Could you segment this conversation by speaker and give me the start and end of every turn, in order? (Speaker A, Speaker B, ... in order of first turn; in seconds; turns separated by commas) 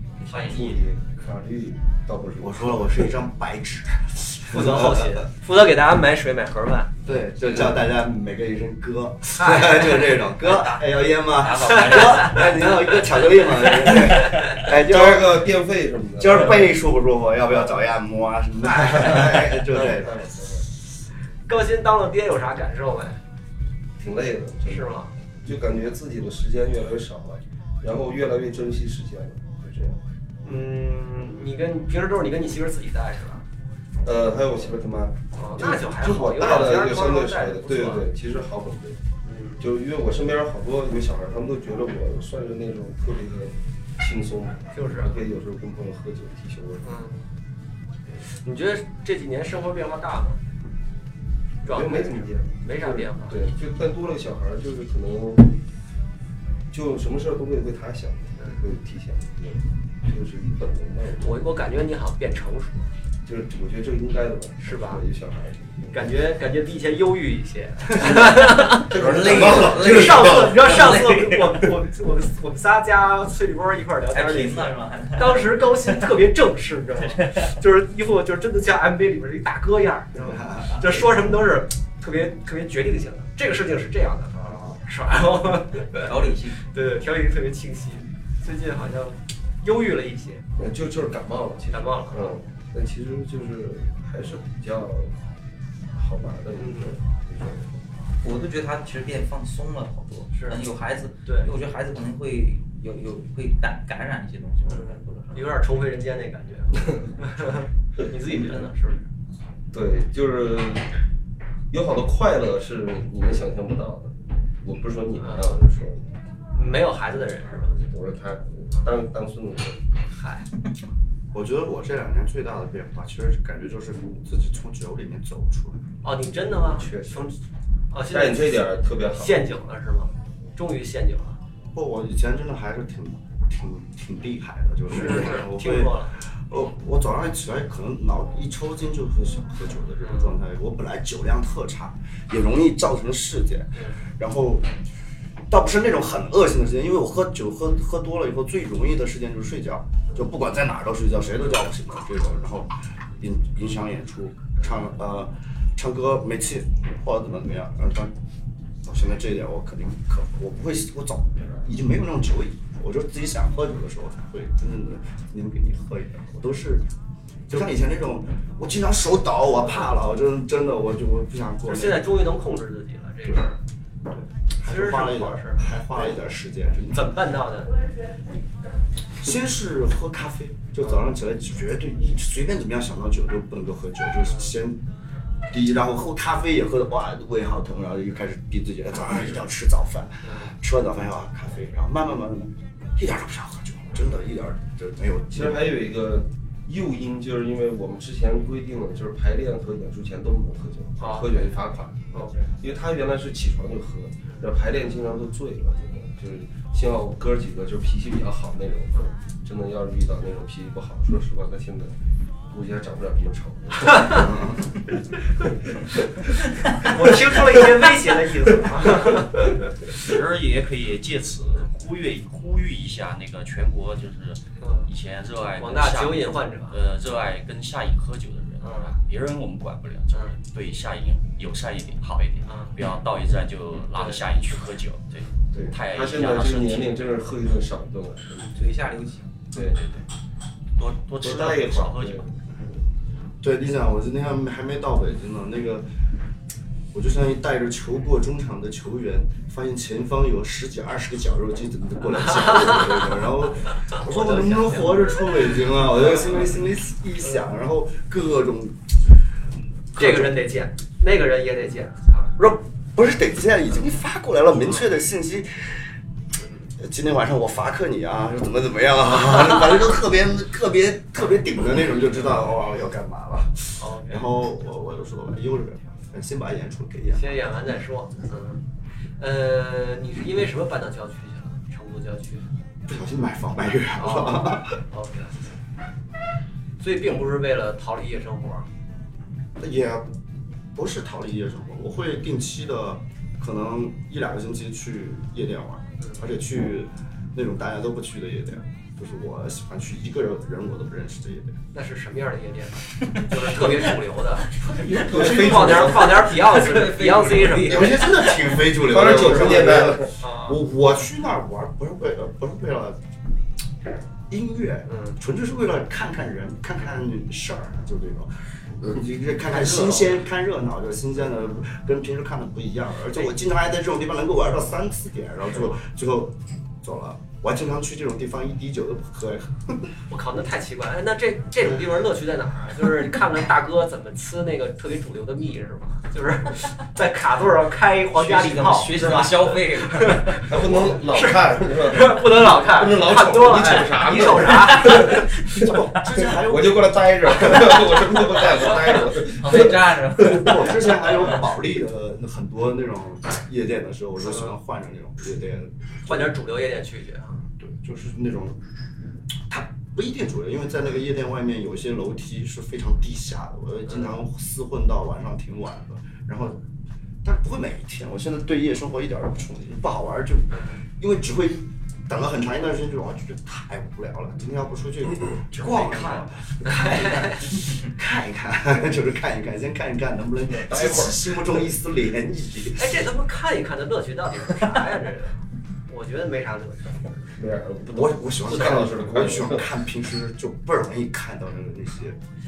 Speaker A: 0.2-0.8, Speaker B: 0.3-2.9, Speaker C: 2.4-5.3, Speaker D: 4.5-6.9, Speaker C: 7.0-15.5, Speaker B: 7.4-7.8, Speaker D: 9.4-10.2, Speaker A: 11.4-12.2, Speaker D: 11.7-12.4, Speaker B: 14.1-16.8, Speaker C: 16.2-20.2, Speaker D: 18.7-19.1, Speaker B: 19.6-20.7, Speaker D: 21.5-23.2, Speaker B: 24.0-30.0, Speaker D: 24.7-25.1, Speaker D: 30.4-33.5, Speaker B: 34.0-39.0, Speaker D: 35.4-38.1, Speaker D: 39.2-39.6, Speaker B: 39.6-46.9, Speaker D: 44.7-45.2, Speaker D: 46.8-47.3, Speaker D: 48.2-50.4, Speaker B: 51.6-55.5, Speaker D: 51.6-53.4, Speaker B: 56.7-61.5, Speaker D: 58.4-58.7, Speaker D: 61.2-62.9, Speaker B: 63.2-66.0, Speaker D: 64.6-65.0, Speaker D: 65.9-90.5, Speaker B: 68.0-70.7, Speaker E: 68.9-71.7, Speaker E: 74.1-76.1, Speaker E: 77.2-77.5, Speaker C: 80.2-81.0, Speaker E: 86.0-86.6, Speaker B: 90.6-95.2, Speaker D: 91.7-92.4, Speaker B: 95.9-97.8, Speaker D: 96.6-97.0, Speaker E: 98.2-105.6, Speaker D: 100.3-100.6, Speaker D: 104.7-109.1, Speaker E: 108.3-108.7, Speaker B: 109.7-110.9, Speaker B: 111.7-116.1, Speaker D: 115.2-115.6, Speaker D: 116.5-117.8, Speaker B: 117.7-120.0, Speaker D: 120.0-120.5, Speaker C: 121.3-125.9, Speaker D: 126.0-127.4, Speaker B: 126.5-127.3, Speaker D: 127.9-131.4, Speaker B: 128.0-129.4, Speaker C: 131.7-144.7, Speaker D: 134.9-136.2, Speaker D: 140.0-140.3, Speaker D: 143.8-144.0, Speaker C: 145.5-158.1, Speaker C: 158.8-166.9, Speaker C: 167.5-172.1, Speaker D: 169.6-169.9, Speaker D: 171.7-173.6, Speaker C: 174.1-177.2, Speaker D: 174.6-176.2, Speaker D: 176.9-177.8, Speaker C: 179.2-184.8, Speaker D: 184.3-184.5, Speaker C: 185.5-195.6, Speaker D: 190.2-190.5, Speaker B: 195.3-212.0, Speaker D: 201.0-201.5, Speaker D: 202.1-202.5, Speaker B: 212.5-214.3, Speaker C: 214.1-214.7, Speaker D: 216.8-219.4, Speaker A: 219.9-237.0, Speaker D: 224.6-224.9, Speaker D: 225.6-226.8, Speaker D: 228.6-228.9, Speaker D: 232.5-232.7, Speaker B: 235.5-238.6, Speaker E: 238.5-239.4, Speaker B: 239.5-239.9, Speaker A: 239.6-240.0, Speaker A: 240.8-242.2, Speaker B: 241.2-242.4, Speaker C: 243.4-245.9, Speaker C: 246.9-259.1, Speaker D: 252.3-252.5, Speaker D: 254.0-256.6, Speaker C: 259.9-260.4, Speaker D: 259.9-262.4, Speaker C: 262.4-265.9, Speaker C: 266.8-277.4, Speaker D: 273.8-274.3, Speaker D: 277.1-278.6, Speaker D: 279.2-282.5, Speaker C: 282.9-284.8, Speaker D: 284.0-285.5, Speaker D: 286.8-288.7, Speaker C: 289.6-290.1, Speaker C: 290.7-301.6, Speaker D: 301.7-304.6, Speaker C: 304.6-306.0, Speaker B: 305.0-306.4, Speaker D: 305.1-308.3, Speaker E: 306.2-308.4, Speaker C: 307.6-313.0, Speaker B: 308.8-310.2, Speaker D: 309.3-309.6, Speaker D: 310.2-310.6, Speaker C: 314.3-329.9, Speaker D: 314.9-315.2, Speaker D: 319.5-320.2, Speaker D: 325.5-325.8, Speaker D: 330.1-345.2, Speaker E: 338.1-340.4, Speaker B: 340.4-350.7, Speaker E: 344.4-346.0, Speaker C: 345.6-347.0, Speaker E: 349.2-350.7, Speaker C: 350.2-356.3, Speaker D: 354.2-354.5, Speaker D: 356.1-357.4, Speaker C: 357.5-358.6, Speaker C: 359.5-366.6, Speaker D: 363.9-364.1, Speaker C: 367.2-383.0, Speaker A: 375.5-376.2, Speaker D: 376.6-377.6, Speaker B: 380.5-381.5, Speaker D: 382.8-387.4, Speaker B: 387.4-389.7, Speaker C: 387.9-392.2, Speaker D: 388.5-388.9